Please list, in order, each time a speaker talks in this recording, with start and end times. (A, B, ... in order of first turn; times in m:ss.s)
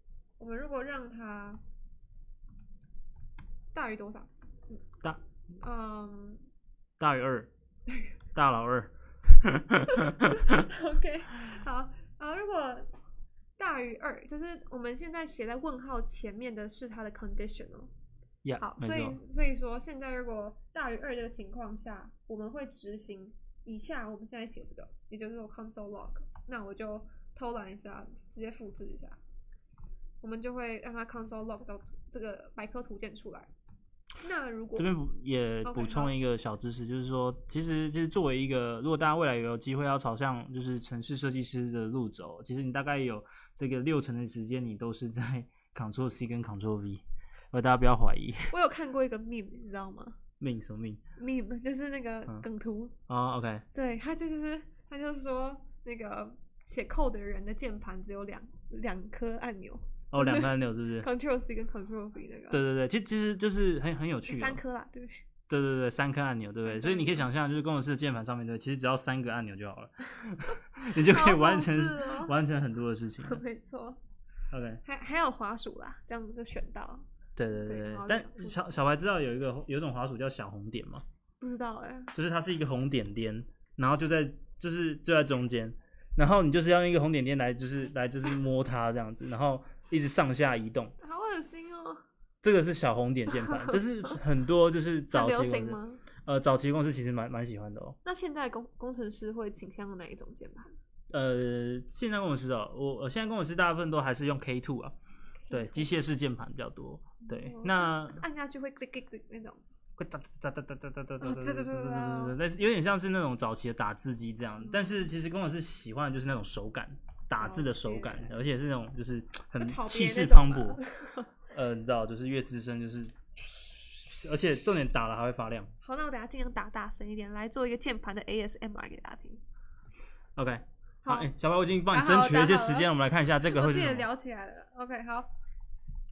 0:00.4-0:01.6 A
0:03.7-0:04.8 A
0:05.6-0:06.4 A
0:07.0-0:07.5 B
0:08.3-0:10.6 B
0:09.9-0:12.9 A
0:13.6-0:17.9 A
0:18.4-0:19.2 B
0:18.6-0:29.2 A
0:30.2-0:33.5 A
0:34.2-0:34.9 A
0:34.8-0:48.5 B
0:35.6-0:36.1 A
0:48.5-0:50.2 A
0:50.4-0:51.0 B
0:51.2-0:52.9 A
0:53.1-0:53.6 B
0:53.7-1:02.6 A
1:00.1-1:01.1 B
1:02.5-1:04.6 B
1:04.3-1:05.2 A
1:05.5-1:13.4 B
1:06.6-1:07.3 A
1:10.9-1:12.4 A
1:13.2-1:14.0 A
1:14.5-1:14.8 B
1:14.8-1:18.7 A
1:17.4-1:21.0 B
1:21.4-1:22.1 A
1:22.1-1:30.9 B
1:31.0-1:32.0 A
1:32.4-1:38.0 B
1:33.3-1:34.2 A
1:35.1-1:36.0 A
1:38.0-1:40.7 A
1:41.1-1:44.9 B
1:45.5-1:45.9 A
1:45.5-1:48.2 B
1:47.2-1:49.6 A
1:50.0-2:00.8 B
1:51.2-1:52.4 A
1:54.6-1:55.0 A
1:57.4-1:58.4 A
1:59.6-2:01.3 A
2:01.5-2:05.7 B
2:05.8-2:09.4 A
2:10.4-2:14.1 B
2:11.0-2:11.3 A
2:11.9-2:12.9 A
2:13.4-2:15.3 A